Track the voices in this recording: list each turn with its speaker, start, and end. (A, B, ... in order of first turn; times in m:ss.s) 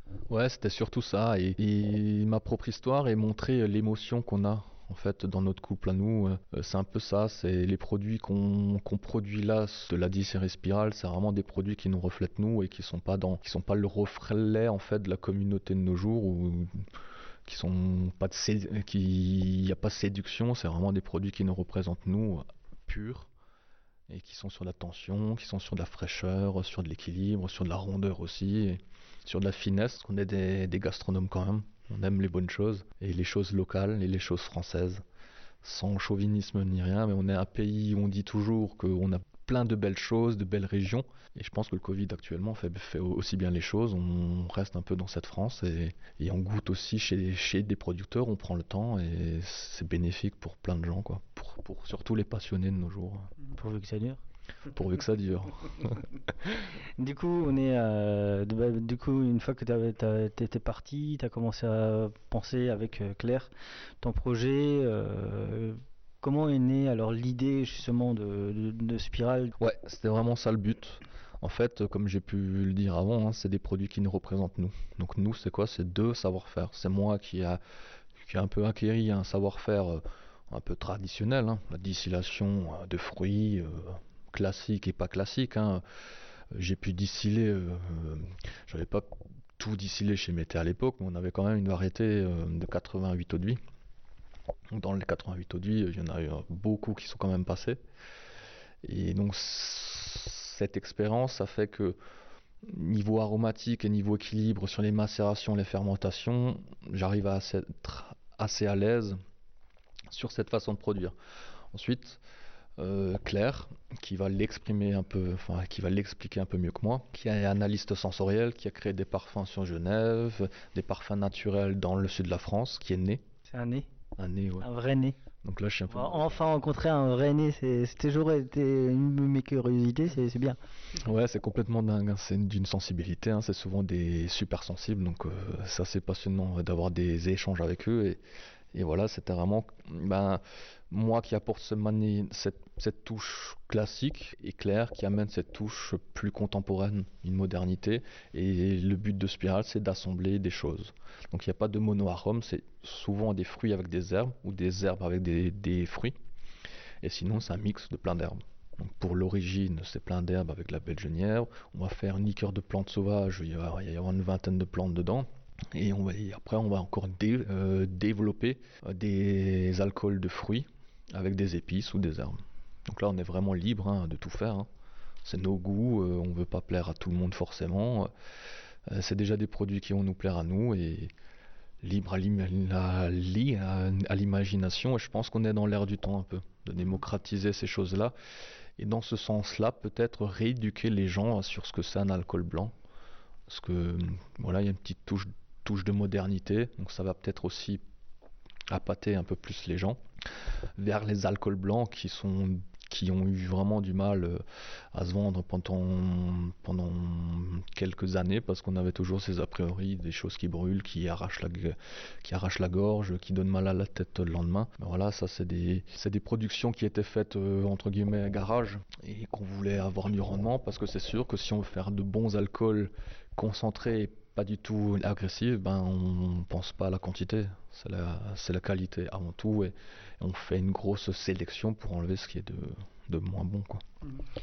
0:00.3-0:16.8 A
0:17.4-0:23.3 A
0:24.1-0:35.0 A
0:35.6-0:53.3 A
0:53.6-0:54.2 B
0:54.7-0:56.0 A
0:57.0-1:03.5 B
1:04.0-1:09.5 B
1:09.6-1:17.6 A
1:18.2-1:25.8 A
1:26.5-1:33.6 A
1:34.7-1:37.8 A
1:38.8-1:42.0 A
1:42.6-1:49.2 A
1:50.1-1:51.2 A
1:51.7-1:52.2 A
1:52.8-2:03.2 A
2:03.5-2:03.9 B
2:04.2-2:04.7 A
2:04.6-2:05.2 B
2:05.4-2:06.4 A
2:05.9-2:10.6 B
2:10.9-2:18.2 A
2:18.7-2:36.2 A
2:37.0-2:54.7 A
2:55.2-2:58.1 A
2:58.9-3:01.1 A
3:01.8-3:08.1 A
3:08.8-3:12.7 A
3:13.5-3:17.8 A
3:18.7-3:20.0 A
3:20.8-3:24.4 A
3:24.9-3:53.8 A